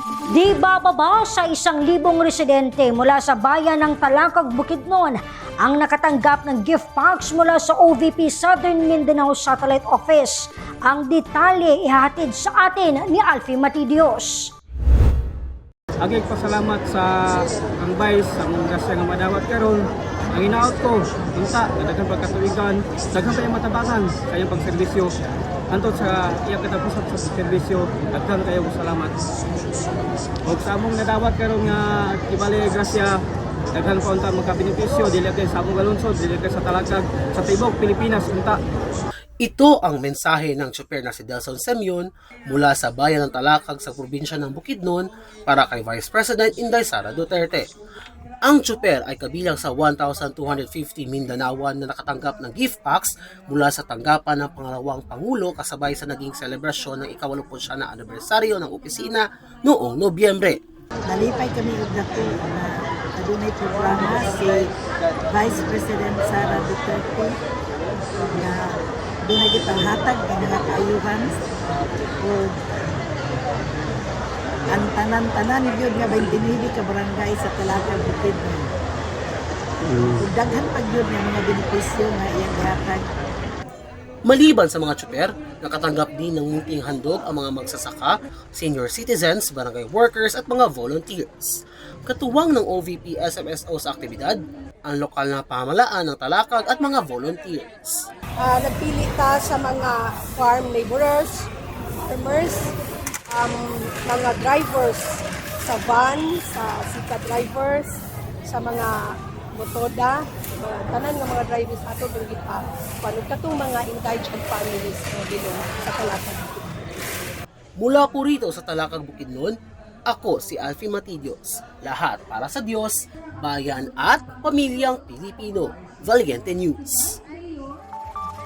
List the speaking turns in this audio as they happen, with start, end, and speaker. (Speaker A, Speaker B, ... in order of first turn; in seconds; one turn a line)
Speaker A: 0.3-14.5
Speaker B: 16.0-25.1
Speaker B: 25.7-29.3
Speaker B: 30.4-33.1
Speaker B: 33.7-38.6
Speaker C: 39.4-47.6
Speaker C: 48.4-60.6
Speaker D: 61.1-64.7
Speaker D: 65.3-67.3
Speaker D: 68.3-68.6
Speaker D: 69.2-71.3
Speaker D: 72.2-72.6
Speaker D: 74.7-78.7
Speaker D: 80.0-83.0
Speaker C: 84.3-91.5
Speaker C: 92.0-98.0
Speaker E: 98.4-101.4
Speaker E: 102.0-102.7
Speaker E: 103.3-105.1
Speaker E: 105.6-107.9
Speaker E: 108.5-108.9
Speaker E: 109.6-116.9
Speaker C: 117.8-119.5
Speaker C: 120.1-127.2